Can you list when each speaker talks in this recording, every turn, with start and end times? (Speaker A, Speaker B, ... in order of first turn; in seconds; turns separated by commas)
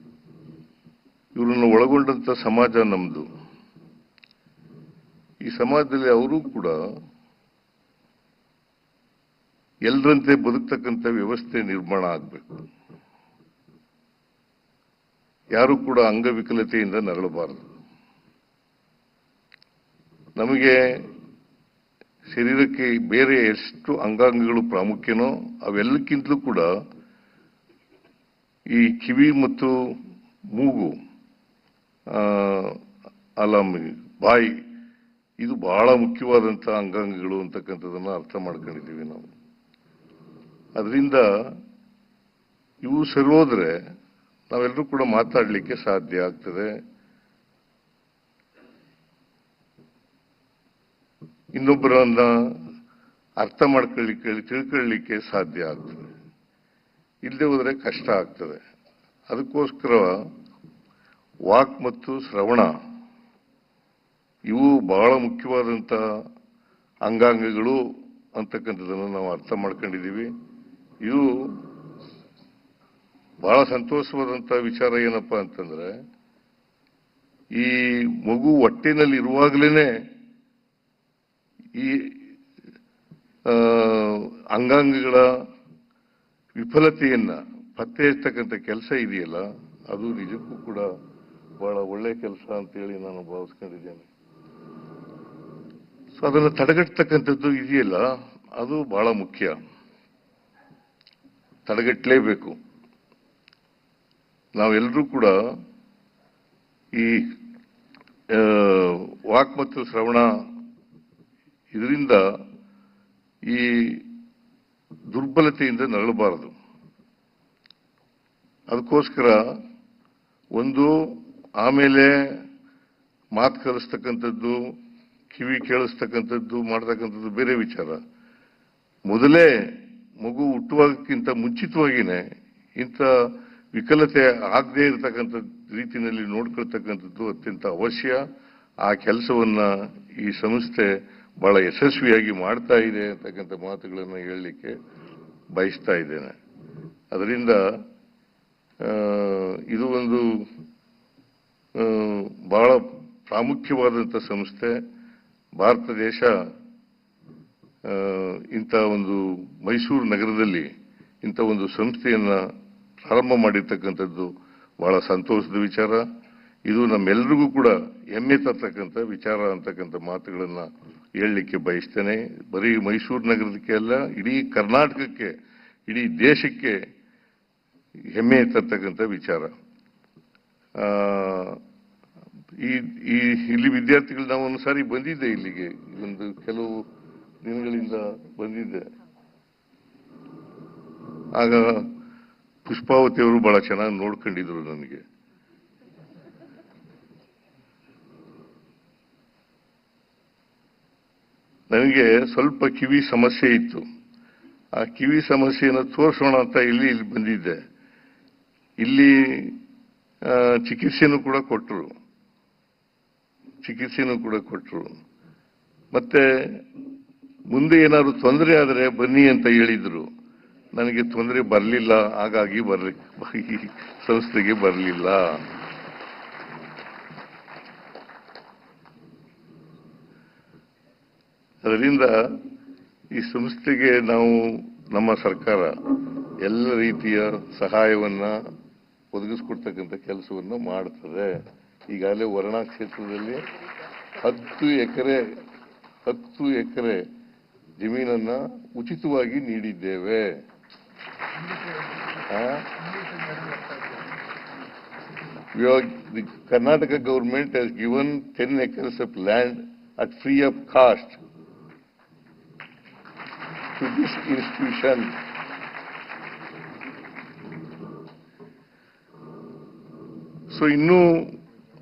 Speaker A: 1.3-3.2, Speaker A: 5.4-6.8, Speaker A: 9.8-12.4, Speaker A: 15.5-17.7, Speaker A: 20.4-21.1, Speaker A: 22.3-26.7, Speaker A: 28.7-29.9, Speaker A: 30.5-30.9, Speaker A: 32.1-32.8, Speaker A: 33.4-34.6, Speaker A: 35.4-39.2, Speaker A: 40.8-41.6, Speaker A: 42.8-43.8, Speaker A: 44.5-46.7, Speaker A: 51.5-52.5, Speaker A: 53.4-56.1, Speaker A: 57.2-58.6, Speaker A: 59.3-60.2, Speaker A: 61.5-62.7, Speaker A: 64.5-66.0, Speaker A: 67.0-70.3, Speaker A: 71.0-71.7, Speaker A: 73.4-76.0, Speaker A: 77.5-79.9, Speaker A: 81.7-82.3, Speaker A: 83.4-85.3, Speaker A: 86.6-90.9, Speaker A: 91.6-94.1, Speaker A: 96.2-99.6, Speaker A: 101.7-102.6, Speaker A: 104.6-105.3, Speaker A: 106.9-107.4, Speaker A: 108.3-110.3, Speaker A: 111.7-112.2, Speaker A: 113.5-114.1, Speaker A: 115.1-116.5, Speaker A: 118.7-119.6, Speaker A: 120.5-122.4, Speaker A: 123.3-124.8, Speaker A: 125.3-128.0, Speaker A: 129.1-132.2, Speaker A: 132.8-138.2, Speaker A: 138.8-144.8, Speaker A: 145.5-146.3, Speaker A: 147.1-147.6, Speaker A: 148.8-150.5, Speaker A: 151.8-154.8, Speaker A: 155.6-156.4, Speaker A: 157.8-160.7, Speaker A: 161.2-162.4, Speaker A: 163.0-166.0, Speaker A: 166.7-175.3, Speaker A: 175.9-176.8, Speaker A: 178.1-179.5, Speaker A: 180.8-181.6, Speaker A: 182.6-186.8, Speaker A: 187.4-188.9, Speaker A: 191.3-191.9, Speaker A: 192.6-195.0, Speaker A: 201.7-203.8, Speaker A: 204.8-207.6, Speaker A: 208.8-209.6, Speaker A: 210.2-211.9, Speaker A: 213.6-214.9, Speaker A: 215.9-216.6, Speaker A: 217.5-220.1, Speaker A: 220.7-225.4, Speaker A: 231.6-232.4, Speaker A: 233.1-238.4, Speaker A: 239.1-243.4, Speaker A: 244.2-245.4, Speaker A: 246.0-247.1, Speaker A: 247.8-250.3, Speaker A: 252.2-252.8, Speaker A: 255.5-261.2, Speaker A: 263.7-265.1, Speaker A: 270.5-271.4